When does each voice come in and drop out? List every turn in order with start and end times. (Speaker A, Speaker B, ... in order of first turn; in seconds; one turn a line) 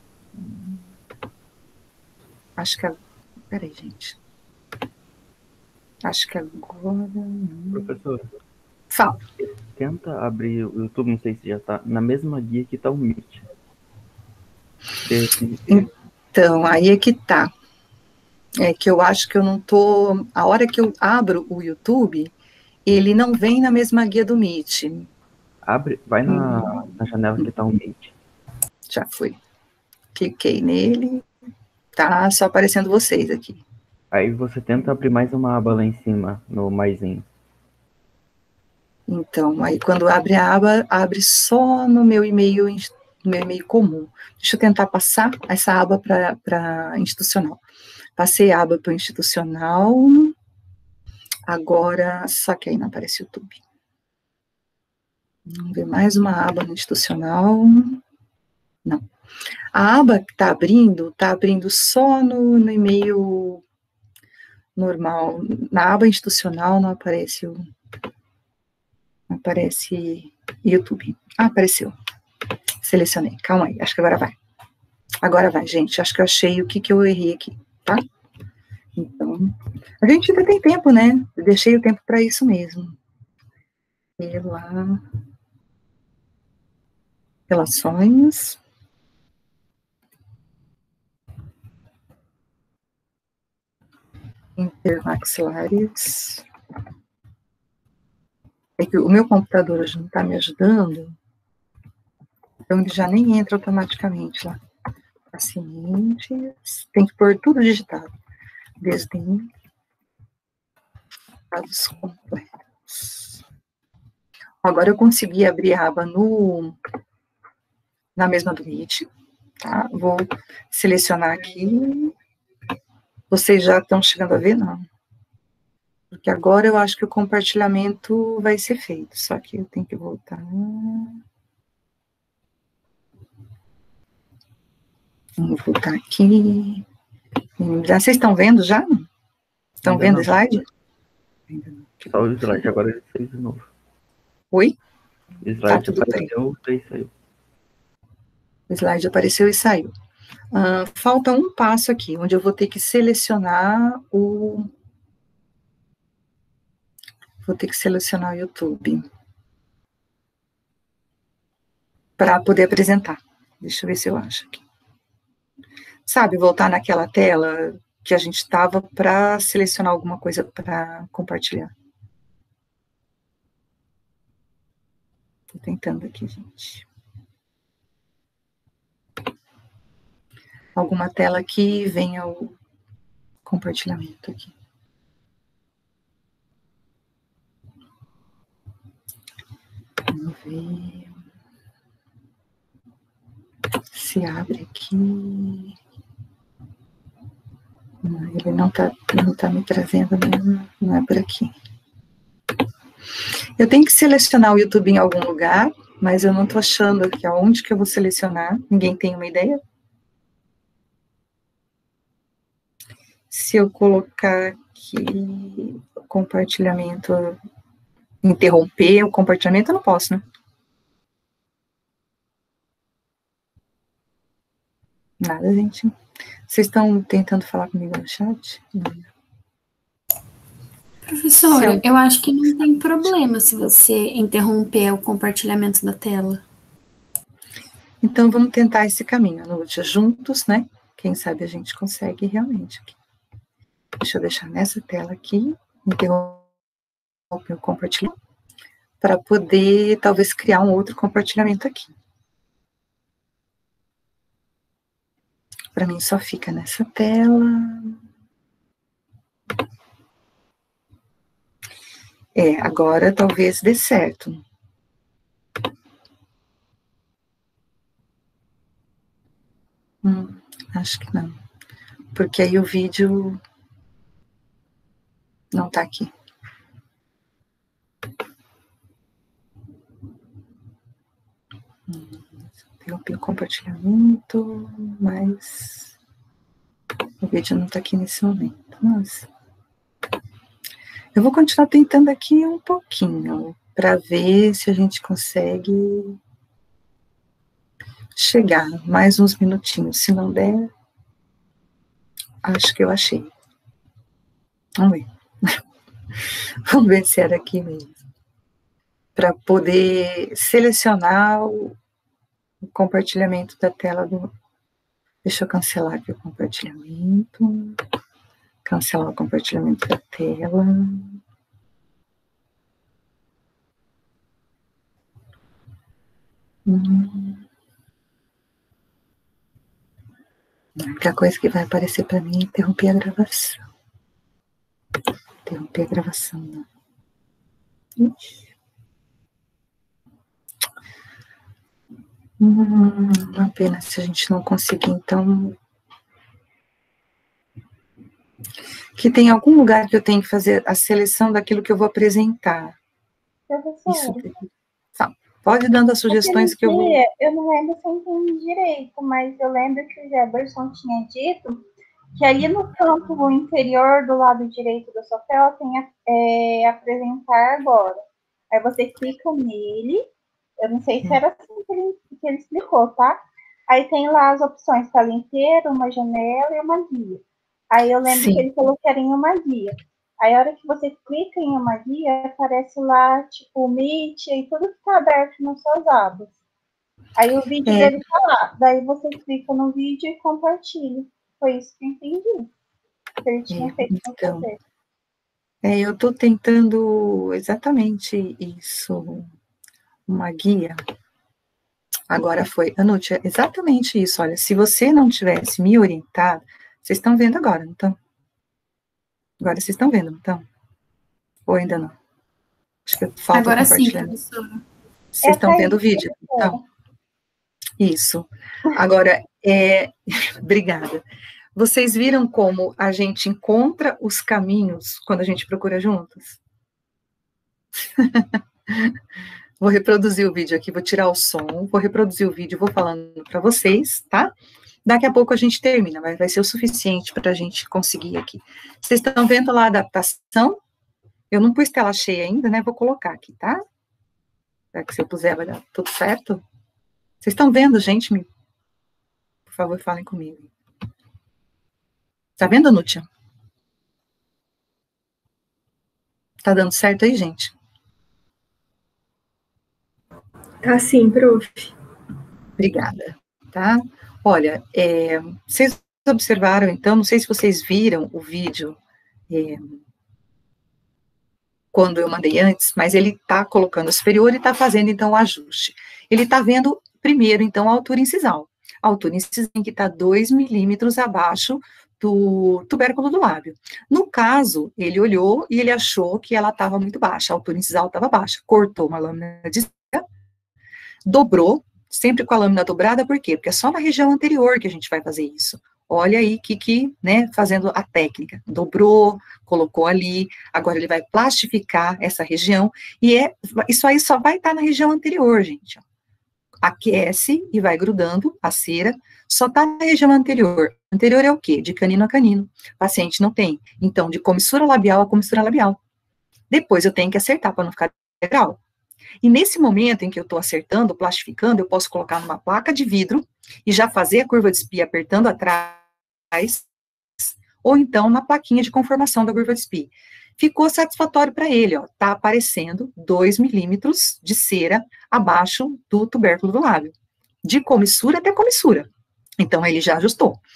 Speaker A: 0.4-0.8
Speaker A: 2.6-3.0
Speaker A: 3.5-4.2
Speaker A: 6.0-8.0
Speaker B: 7.7-8.3
Speaker A: 8.9-9.2
Speaker B: 9.7-13.4
Speaker B: 15.0-15.9
Speaker A: 15.7-17.5
Speaker A: 18.6-22.3
Speaker A: 22.9-25.1
Speaker B: 25.7-28.1
Speaker A: 26.3-27.5
Speaker A: 28.9-29.4
Speaker A: 30.1-31.2
Speaker A: 31.9-33.6
Speaker B: 34.1-37.3
Speaker A: 39.1-47.6
Speaker A: 48.2-50.3
Speaker A: 51.5-53.6
Speaker A: 55.5-58.0
Speaker A: 59.7-63.6
Speaker A: 64.8-67.7
Speaker A: 69.3-71.9
Speaker A: 72.8-74.4
Speaker A: 75.2-78.0
Speaker A: 79.0-83.0
Speaker A: 84.2-85.0
Speaker A: 87.5-88.6
Speaker A: 94.6-96.4
Speaker A: 98.8-101.1
Speaker A: 102.7-104.6
Speaker A: 105.3-108.1
Speaker A: 108.8-109.5
Speaker A: 111.5-113.3
Speaker A: 114.6-116.8
Speaker A: 118.2-119.1
Speaker A: 119.6-122.1
Speaker A: 123.3-124.8
Speaker A: 126.1-131.2
Speaker A: 135.4-136.8
Speaker A: 137.6-139.1
Speaker A: 139.8-140.6
Speaker B: 139.8-140.4
Speaker A: 141.6-142.1
Speaker B: 142.0-143.7
Speaker B: 145.4-147.1
Speaker A: 145.7-146.3
Speaker A: 148.7-149.9
Speaker A: 150.5-154.7
Speaker A: 157.4-159.1
Speaker A: 162.2-164.6
Speaker A: 166.1-171.7
Speaker A: 175.5-176.8
Speaker A: 180.8-182.5
Speaker A: 183.5-184.5
Speaker A: 190.1-191.1
Speaker A: 193.9-195.7
Speaker A: 198.0-201.5
Speaker A: 203.6-209.6
Speaker A: 213.3-217.4
Speaker A: 218.2-220.2
Speaker A: 225.2-225.9
Speaker A: 226.5-229.1
Speaker C: 231.1-236.4
Speaker A: 231.3-231.9
Speaker A: 238.0-242.9
Speaker A: 244.0-246.5
Speaker A: 247.3-248.1
Speaker A: 249.0-251.9
Speaker A: 255.8-257.9
Speaker A: 262.3-264.4
Speaker A: 270.0-271.4
Speaker A: 272.1-273.4
Speaker A: 275.5-276.1
Speaker A: 281.9-285.9
Speaker A: 287.2-289.3
Speaker A: 291.1-296.2
Speaker A: 298.2-300.7
Speaker A: 302.4-303.3
Speaker A: 304.8-305.6
Speaker A: 306.7-308.0
Speaker A: 309.2-311.8
Speaker A: 312.7-314.3
Speaker A: 315.2-317.8
Speaker A: 318.6-321.2
Speaker A: 326.7-327.4
Speaker A: 330.8-333.6
Speaker A: 335.5-336.6
Speaker A: 338.0-338.3
Speaker A: 342.4-345.5
Speaker A: 349.0-352.8
Speaker D: 353.5-354.3
Speaker A: 353.9-354.4
Speaker A: 355.0-357.0
Speaker D: 356.1-361.6
Speaker D: 362.2-370.0
Speaker D: 370.6-386.4
Speaker A: 378.1-378.5
Speaker D: 387.2-392.5
Speaker A: 387.6-388.0
Speaker D: 393.2-394.6
Speaker A: 393.5-394.5
Speaker A: 395.6-399.3
Speaker A: 400.1-400.8
Speaker A: 402.1-408.0
Speaker A: 409.4-410.5
Speaker A: 411.5-411.9
Speaker A: 412.9-414.2
Speaker C: 413.3-414.6
Speaker A: 415.2-416.6
Speaker D: 415.2-416.6
Speaker A: 417.8-421.0
Speaker A: 421.5-426.4
Speaker A: 428.0-428.9
Speaker A: 429.6-434.3
Speaker A: 434.8-440.6
Speaker A: 441.3-443.6
Speaker A: 444.7-446.4
Speaker A: 447.2-448.3
Speaker A: 449.5-450.5
Speaker A: 452.4-453.1
Speaker A: 456.4-457.5
Speaker C: 460.8-461.5
Speaker A: 462.6-468.8
Speaker A: 469.3-469.8
Speaker A: 471.7-490.0
Speaker A: 491.0-505.8
Speaker A: 506.6-515.8
Speaker A: 516.5-518.6
Speaker A: 519.2-526.7
Speaker A: 527.6-536.9
Speaker A: 537.4-540.4